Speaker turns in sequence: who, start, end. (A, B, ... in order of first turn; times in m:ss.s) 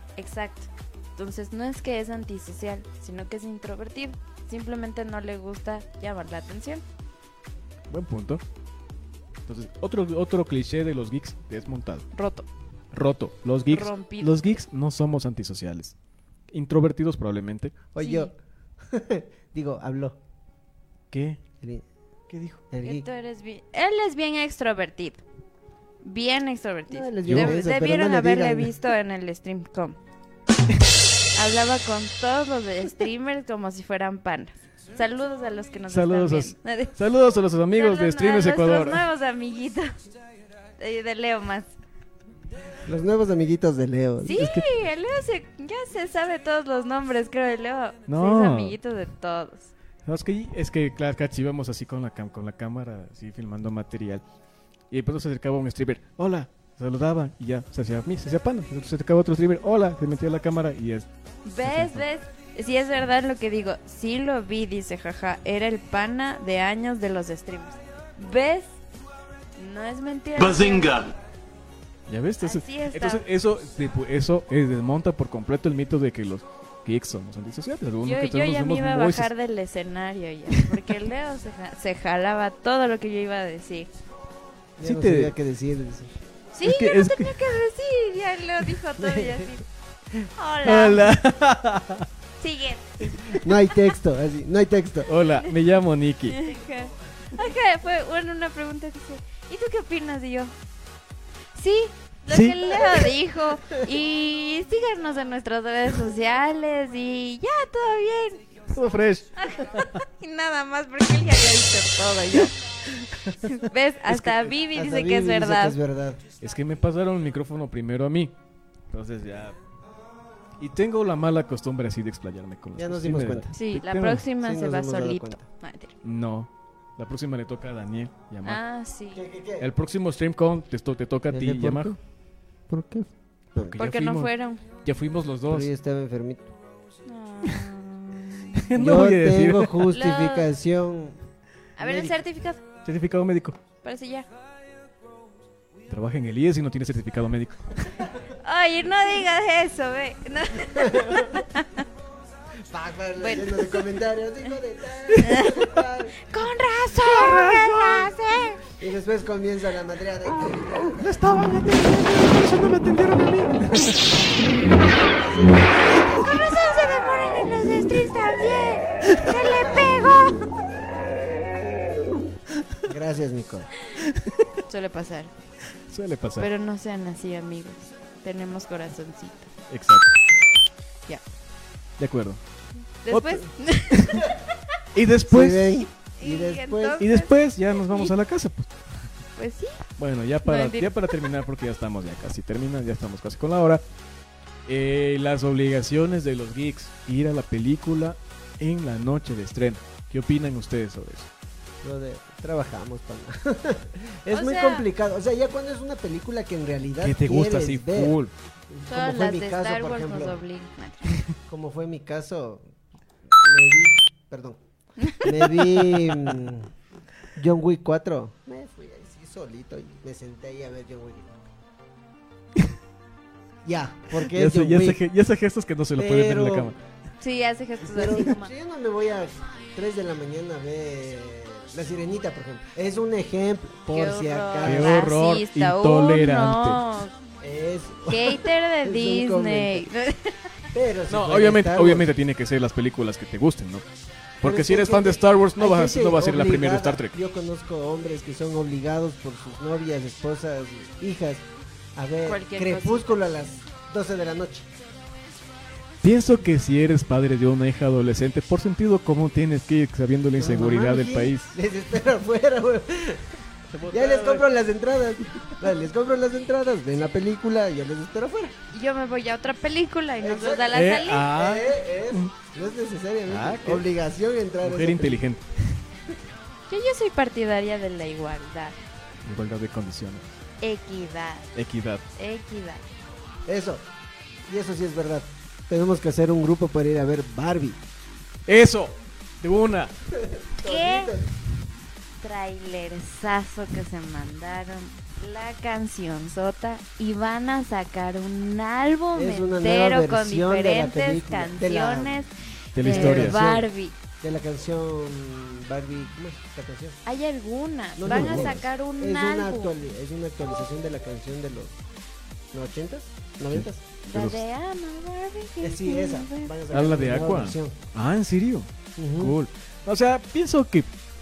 0:00.2-0:06.8 A
0:07.9-0:08.4 B
0:09.5-0:12.1 B
0:12.1-0:12.4 A
0:12.9-0:15.9 B
0:13.7-0:14.6 A
0:16.5-0:17.8 B
0:17.9-0:18.3 C
0:18.0-0:18.3 A
0:18.9-0:20.2 C
0:21.1-0:21.4 B
0:22.3-0:22.6 B
0:22.7-0:23.0 C
0:22.8-0:25.2 A
0:26.0-0:30.0 A
0:26.9-0:28.7 C
0:27.3-0:27.6 B
0:31.3-0:36.9 A
0:35.9-0:39.0 B
0:37.7-0:40.0 A
0:40.8-0:41.7 A
0:42.8-0:44.4 C
0:44.2-0:49.7 A
0:44.4-0:44.7 B
0:48.1-0:48.8 B
0:50.0-0:54.2 B
0:54.9-1:01.1 B
1:01.4-1:08.8 A
1:01.6-1:02.0 B
1:09.6-1:11.1 A
1:12.1-1:19.3 B
1:12.4-1:13.2 A
1:18.0-1:23.9 A
1:24.8-1:26.1 C
1:24.8-1:25.3 B
1:26.5-1:29.6 A
1:26.6-1:27.3 B
1:29.0-1:29.6 C
1:30.3-1:31.0 A
1:30.6-1:32.1 B
1:32.4-1:33.4 A
1:33.3-1:35.1 C
1:35.1-1:36.4 B
1:35.2-1:35.5 A
1:36.3-1:40.5 A
1:41.5-1:48.4 A
1:42.3-1:42.9 B
1:48.7-1:50.0 B
1:49.4-1:52.5 A
1:53.4-1:55.8 A
1:54.1-1:54.4 B
1:54.5-1:56.2 C
1:56.4-1:58.3 B
1:58.9-1:59.6 B
2:00.6-2:04.2 B
2:02.8-2:03.5 C
2:03.5-2:05.9 A
2:04.4-2:05.4 C
2:06.0-2:08.6 B
2:08.4-2:09.2 A
2:09.1-2:09.7 C
2:09.6-2:12.0 B
2:11.3-2:12.0 C
2:12.7-2:13.8 C
2:13.6-2:14.3 B
2:13.8-2:14.6 A
2:14.8-2:15.7 B
2:15.5-2:16.5 C
2:17.0-2:18.6 A
2:18.6-2:19.9 B
2:18.7-2:21.2 C
2:19.9-2:20.5 A
2:21.8-2:22.6 A
2:21.8-2:22.2 C
2:22.8-2:23.6 B
2:23.8-2:24.3 A
2:25.9-2:27.9 B
2:28.4-2:31.8 A
2:30.8-2:31.4 C
2:32.7-2:36.2 C
2:33.2-2:33.8 A
2:35.2-2:38.6 A
2:37.0-2:38.0 B
2:38.7-2:41.0 C
2:41.0-2:44.0 B
2:45.0-2:45.9 C
2:45.9-2:50.4 A
2:52.8-2:53.7 C
2:54.0-2:54.4 B
2:54.7-2:55.3 A
2:55.9-2:56.5 B
2:56.4-2:59.5 A
2:59.7-3:00.1 B
3:02.0-3:02.4 B
3:03.0-3:04.3 A
3:03.1-3:04.2 B
3:04.9-3:05.9 B
3:05.3-3:07.0 C
3:06.2-3:08.1 A
3:07.0-3:08.9 B
3:09.4-3:09.8 A
3:10.0-3:13.8 B
3:10.4-3:11.1 A
3:14.6-3:21.3 B
3:21.8-3:28.2 C
3:24.3-3:24.9 A
3:27.0-3:28.3 B
3:28.7-3:30.4 C
3:28.9-3:31.2 A
3:31.5-3:32.6 C
3:33.2-3:34.6 C
3:35.0-3:35.3 A
3:35.2-3:36.7 C
3:36.1-3:36.3 B
3:37.4-3:41.5 C
3:43.6-3:45.0 C
3:44.1-3:46.8 B
3:46.0-3:46.7 C
3:47.2-3:48.5 A
3:47.9-3:55.0 C
3:53.9-3:57.1 A
3:54.6-3:56.8 B
3:57.4-3:59.9 C
3:58.1-4:00.5 A
4:00.7-4:02.1 C
4:01.1-4:03.8 B
4:04.4-4:07.2 B
4:04.4-4:14.7 C
4:12.2-4:13.2 A
4:16.0-4:21.5 B
4:20.4-4:23.4 C
4:23.7-4:24.4 B
4:23.9-4:28.6 C
4:28.7-4:31.3 A
4:30.2-4:35.2 C
4:30.7-4:32.3 B
4:33.3-4:33.8 B
4:34.6-4:35.8 B
4:36.7-4:38.8 A
4:39.2-4:40.2 B
4:40.6-4:41.5 A
4:41.5-4:42.1 B
4:42.1-4:42.8 A
4:43.5-4:43.8 C
4:44.5-4:47.8 C
4:48.5-4:49.9 B
4:50.2-4:51.3 C
4:50.6-4:51.1 A
4:52.2-5:04.0 A
4:59.1-5:02.3 C
5:02.7-5:03.4 B
5:02.8-5:03.7 C
5:04.2-5:07.0 C
5:07.0-5:09.7 A
5:08.0-5:11.8 C
5:08.0-5:08.6 B
5:12.5-5:13.8 C
5:13.5-5:14.4 B
5:14.0-5:16.5 A
5:15.6-5:17.8 C
5:16.7-5:20.9 B
5:19.0-5:19.3 C